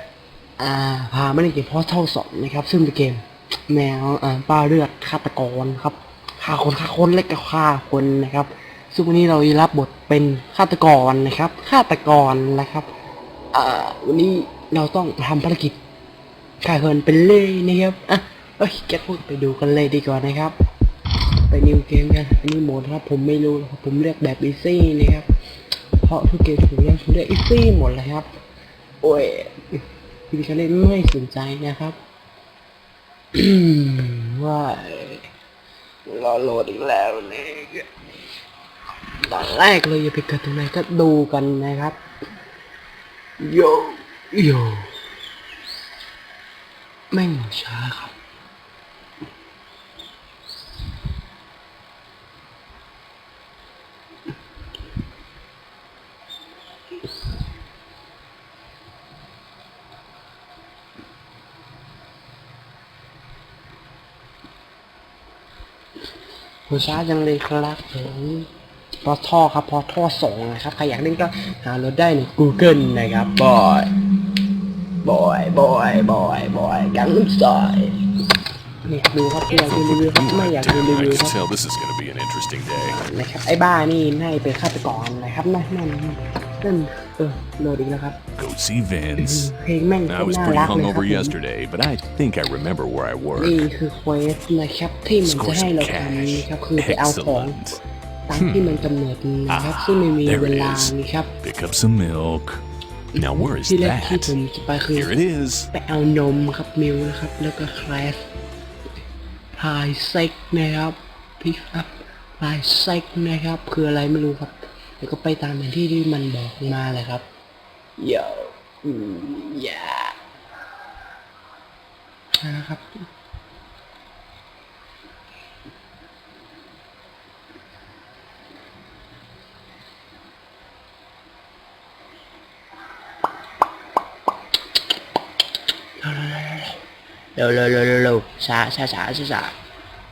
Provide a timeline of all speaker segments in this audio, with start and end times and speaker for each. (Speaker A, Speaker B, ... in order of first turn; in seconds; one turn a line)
Speaker A: 0.6-12.9
Speaker A: 13.5-15.8
Speaker A: 16.6-20.6
Speaker A: 21.5-25.2
Speaker A: 26.0-28.3
Speaker A: 29.0-29.6
Speaker A: 30.3-32.0
Speaker A: 33.3-35.3
Speaker A: 36.0-37.9
Speaker A: 39.2-42.0
Speaker A: 43.4-45.0
Speaker A: 47.1-48.1
Speaker A: 66.7-68.5
Speaker A: 69.0-73.9
Speaker A: 75.0-78.0
Speaker A: 78.8-81.3
Speaker B: 79.5-83.0
Speaker A: 82.8-88.2
Speaker B: 88.4-89.5
Speaker A: 89.2-91.3
Speaker B: 90.1-93.6
Speaker A: 93.4-97.6
Speaker B: 95.2-97.8
Speaker A: 98.3-101.3
Speaker B: 98.3-98.7
Speaker B: 99.5-102.6
Speaker B: 103.1-104.3
Speaker A: 103.4-105.1
Speaker B: 104.9-105.7
Speaker A: 105.7-108.3
Speaker A: 109.5-117.2
Speaker A: 118.0-120.1
Speaker A: 122.4-122.9
Speaker A: 136.0-136.8
Speaker A: 137.3-139.5